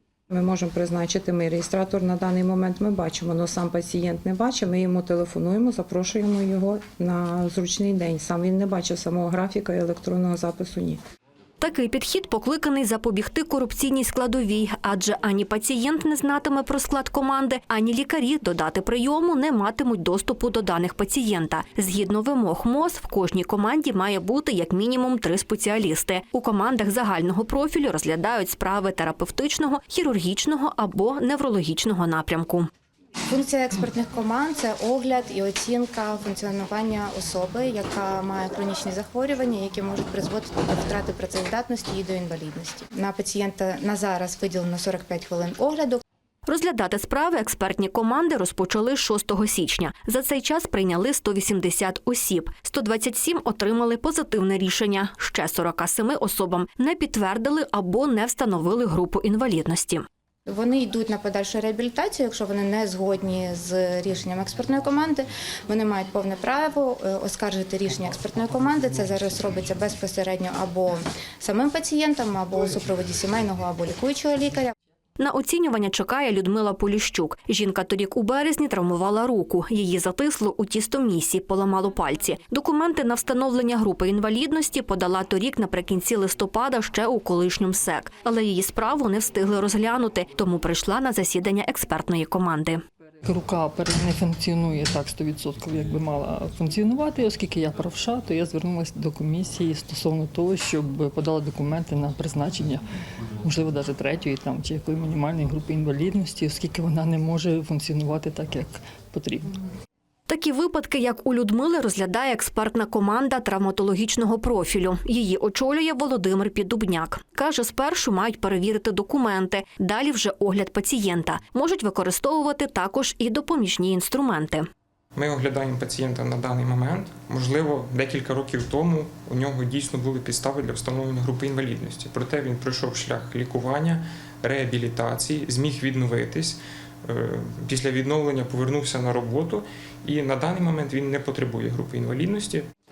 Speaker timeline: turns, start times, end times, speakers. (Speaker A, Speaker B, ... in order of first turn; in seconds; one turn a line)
Speaker A: 0.3-11.0
Speaker B: 11.6-32.7
Speaker C: 33.3-46.0
Speaker B: 46.5-60.0
Speaker C: 60.5-74.7
Speaker B: 75.2-92.8
Speaker D: 93.2-102.8
Speaker D: 103.4-109.6
Speaker B: 110.3-124.7
Speaker E: 125.2-142.7